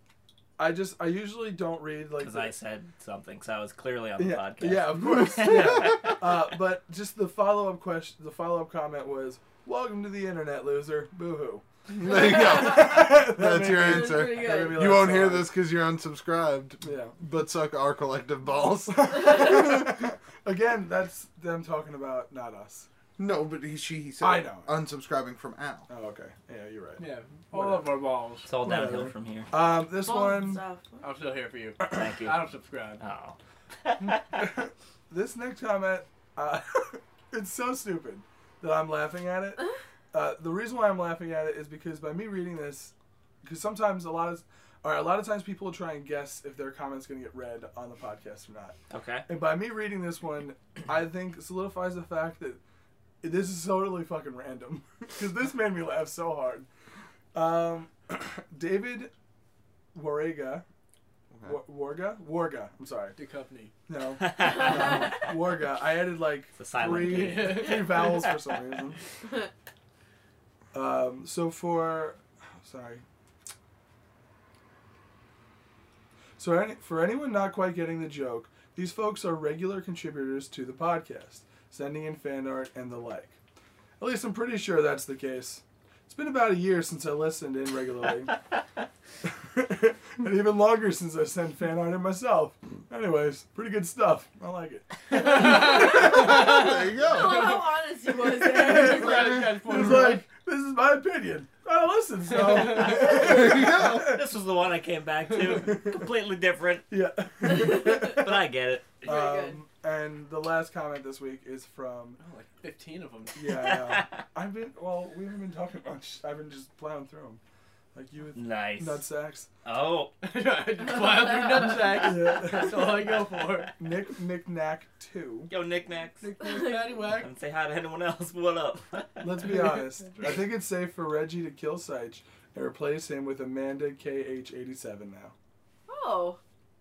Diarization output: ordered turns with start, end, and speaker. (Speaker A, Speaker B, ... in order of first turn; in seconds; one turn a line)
Speaker A: 0.6-2.5
Speaker B: 2.2-6.2
Speaker A: 4.2-15.5
Speaker C: 5.1-6.1
Speaker C: 11.9-20.1
Speaker D: 12.4-13.0
Speaker D: 13.6-15.1
Speaker A: 16.8-17.2
Speaker A: 18.9-22.9
Speaker C: 23.2-25.9
Speaker A: 24.2-24.7
Speaker A: 25.9-28.0
Speaker E: 27.0-28.5
Speaker B: 28.4-29.5
Speaker A: 28.5-30.6
Speaker D: 30.0-31.0
Speaker E: 31.0-33.0
Speaker B: 31.8-32.5
Speaker B: 33.0-34.4
Speaker A: 34.3-52.6
Speaker B: 48.9-49.2
Speaker A: 53.2-56.7
Speaker A: 57.3-59.1
Speaker A: 59.9-60.6
Speaker C: 61.3-61.6
Speaker A: 61.4-63.2
Speaker E: 63.2-63.7
Speaker A: 63.9-69.1
Speaker B: 64.2-65.1
Speaker B: 66.6-68.1
Speaker E: 67.0-68.1
Speaker A: 70.7-73.0
Speaker A: 76.4-83.4
Speaker A: 84.0-88.4
Speaker A: 89.2-96.4
Speaker D: 95.1-99.2
Speaker E: 95.1-96.5
Speaker C: 95.7-97.5
Speaker A: 98.2-104.2
Speaker E: 98.6-100.3
Speaker E: 102.3-103.0
Speaker B: 102.9-106.9
Speaker C: 103.0-104.2
Speaker A: 106.9-108.5
Speaker B: 107.5-109.0
Speaker D: 109.0-109.6
Speaker A: 109.0-112.2
Speaker E: 112.2-113.7
Speaker A: 113.4-117.4
Speaker B: 113.6-114.1
Speaker A: 117.9-119.5
Speaker B: 118.3-119.1
Speaker B: 119.6-120.1
Speaker E: 120.2-123.7
Speaker A: 121.9-123.1
Speaker A: 123.7-125.5
Speaker B: 125.5-126.3
Speaker E: 126.2-127.3
Speaker D: 126.5-126.9
Speaker B: 127.1-129.6
Speaker A: 129.2-135.3
Speaker D: 135.9-136.4